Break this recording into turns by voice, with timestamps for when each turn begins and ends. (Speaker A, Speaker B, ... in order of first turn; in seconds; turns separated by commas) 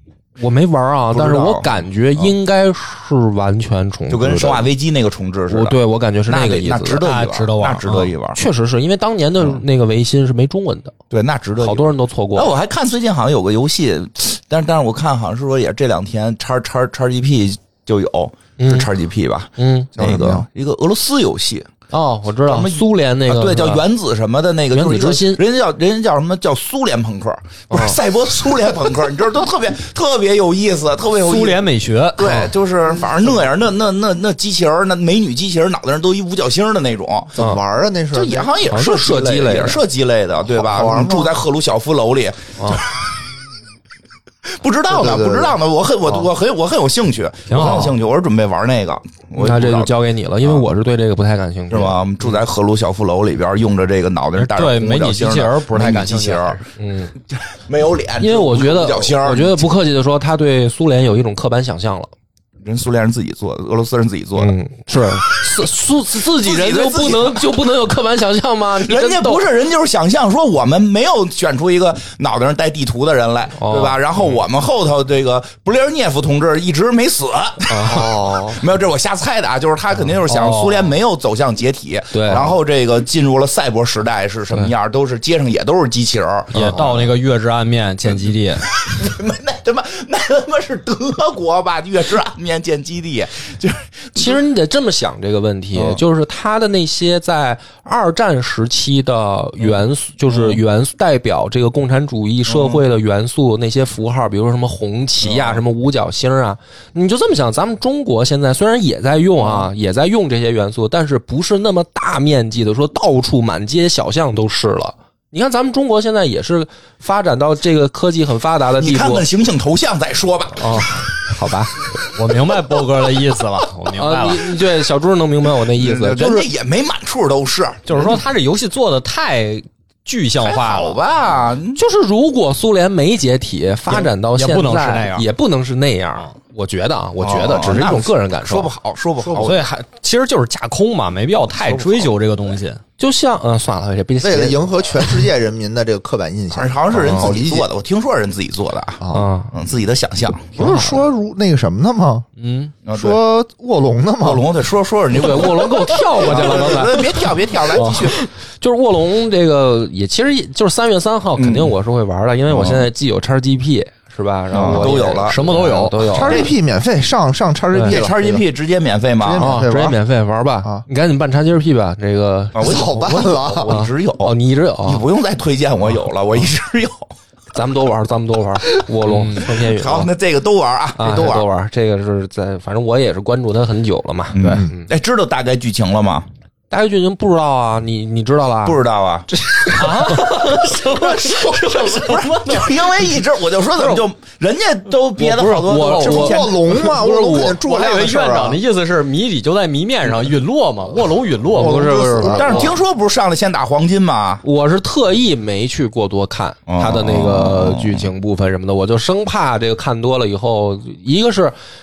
Speaker A: 0.4-4.7, Speaker B: 1.1-2.3, Speaker B: 4.1-8.4, Speaker A: 5.5-7.0, Speaker C: 7.0-8.1, Speaker A: 8.3-10.9, Speaker B: 11.1-21.7, Speaker A: 11.6-12.5, Speaker A: 18.6-18.9, Speaker A: 19.6-19.9, Speaker D: 19.9-20.4, Speaker A: 21.9-23.8, Speaker B: 22.4-31.6, Speaker A: 24.7-25.4, Speaker A: 27.7-28.0, Speaker C: 31.2-32.4, Speaker B: 32.1-37.4, Speaker D: 37.3-38.5, Speaker A: 37.4-37.6, Speaker B: 38.1-43.3, Speaker A: 38.6-39.8, Speaker D: 40.5-41.3, Speaker A: 42.6-42.8, Speaker B: 44.5-50.7, Speaker D: 44.9-46.3, Speaker C: 47.5-48.0, Speaker A: 49.4-52.0, Speaker B: 51.7-56.6, Speaker C: 54.4-56.6, Speaker A: 56.8-57.1, Speaker B: 57.3-59.7, Speaker A: 58.2-62.1, Speaker B: 62.6-64.5, Speaker A: 64.4-69.4, Speaker B: 65.2-65.7, Speaker B: 66.2-67.7, Speaker B: 68.7-87.0, Speaker A: 73.6-74.4, Speaker A: 77.7-78.1, Speaker D: 77.8-78.6, Speaker C: 80.2-80.9, Speaker A: 82.1-82.5, Speaker A: 86.5-87.0, Speaker C: 86.5-88.6, Speaker B: 88.7-94.4, Speaker A: 94.1-119.2, Speaker B: 95.7-96.0, Speaker B: 100.3-100.6, Speaker B: 102.5-102.8, Speaker B: 105.2-105.6, Speaker B: 109.4-109.7, Speaker B: 118.8-121.1, Speaker A: 120.7-121.7, Speaker C: 122.1-124.5, Speaker A: 123.9-126.5, Speaker B: 125.6-128.2, Speaker C: 127.9-131.0, Speaker B: 130.4-131.8, Speaker A: 131.7-138.7, Speaker C: 133.9-135.2, Speaker B: 137.2-139.7, Speaker C: 139.2-142.8, Speaker B: 141.6-142.1, Speaker A: 143.0-145.1, Speaker D: 144.2-147.7, Speaker B: 146.5-150.7, Speaker A: 147.0-147.3, Speaker D: 149.0-149.3, Speaker A: 149.1-149.5, Speaker D: 150.6-152.3, Speaker A: 150.6-151.0, Speaker C: 152.4-152.7, Speaker B: 152.8-153.2, Speaker D: 152.9-154.5, Speaker B: 154.2-158.2, Speaker A: 155.1-166.5, Speaker D: 156.3-156.6, Speaker B: 161.4-161.7, Speaker B: 162.5-162.9, Speaker B: 164.5-165.4, Speaker C: 164.6-166.0, Speaker D: 166.1-168.4, Speaker B: 166.2-166.6, Speaker A: 167.7-168.0, Speaker B: 167.8-169.6, Speaker D: 169.2-170.0, Speaker A: 169.4-175.0, Speaker B: 172.5-177.1, Speaker D: 172.6-173.8, Speaker A: 177.5-180.1, Speaker B: 179.2-181.4, Speaker A: 181.0-184.9, Speaker B: 184.3-186.3, Speaker D: 184.4-184.7, Speaker A: 186.7-192.7, Speaker B: 188.6-189.3, Speaker C: 189.8-190.7, Speaker B: 190.8-196.7, Speaker A: 195.2-197.6, Speaker C: 195.3-196.9, Speaker D: 196.0-198.6, Speaker C: 197.6-202.4, Speaker D: 201.5-202.7, Speaker A: 201.5-202.8, Speaker B: 202.3-204.4, Speaker A: 204.4-211.5, Speaker B: 206.7-208.1